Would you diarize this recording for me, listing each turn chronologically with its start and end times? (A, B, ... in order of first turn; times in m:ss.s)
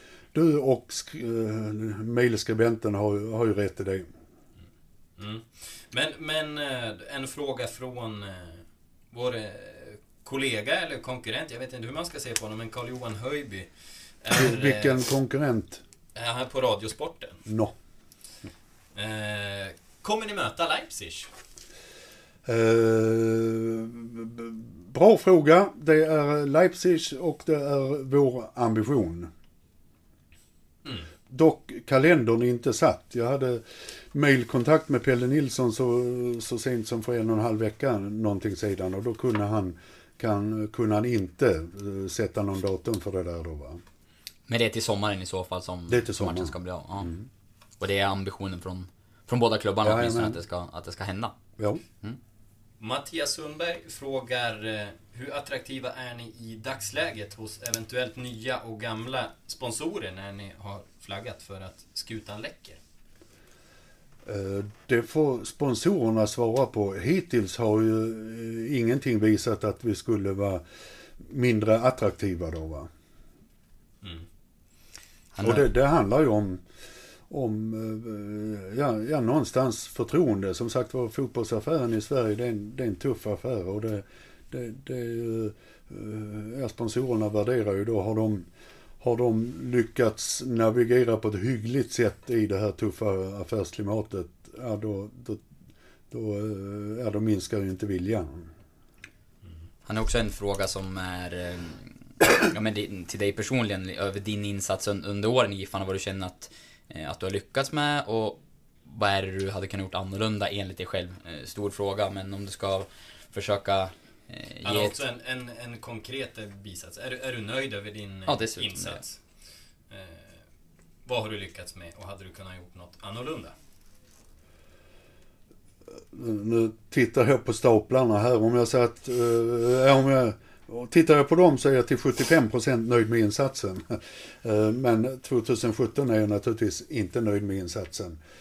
0:00.3-0:04.1 A
0:05.2-0:13.7 B
0:14.2-0:15.0 B
0:14.3-0:15.8 A
0:16.1-0:17.4 B
0:17.4-0:17.7 A
0:18.9-0:21.3 B
0:22.4-0:29.3 A
0:31.3-0:43.8 A
0:44.5-0:47.1 C
0:45.9-0:47.3 A
0:47.8-0:51.3 C
0:49.8-0:50.4 A
0:51.6-0:51.8 A
0:52.8-1:02.8 B
1:04.2-1:10.6 A
1:11.2-1:12.9 A
1:15.3-1:15.6 C
1:15.4-1:16.6 A
1:17.3-1:28.5 A
1:29.0-1:35.4 A
1:36.1-1:38.5 A
1:39.9-1:55.0 C
1:54.6-1:59.2 B
1:58.3-1:59.0 C
1:59.9-2:00.4 B
2:01.0-2:03.5 B
2:06.1-2:18.2 A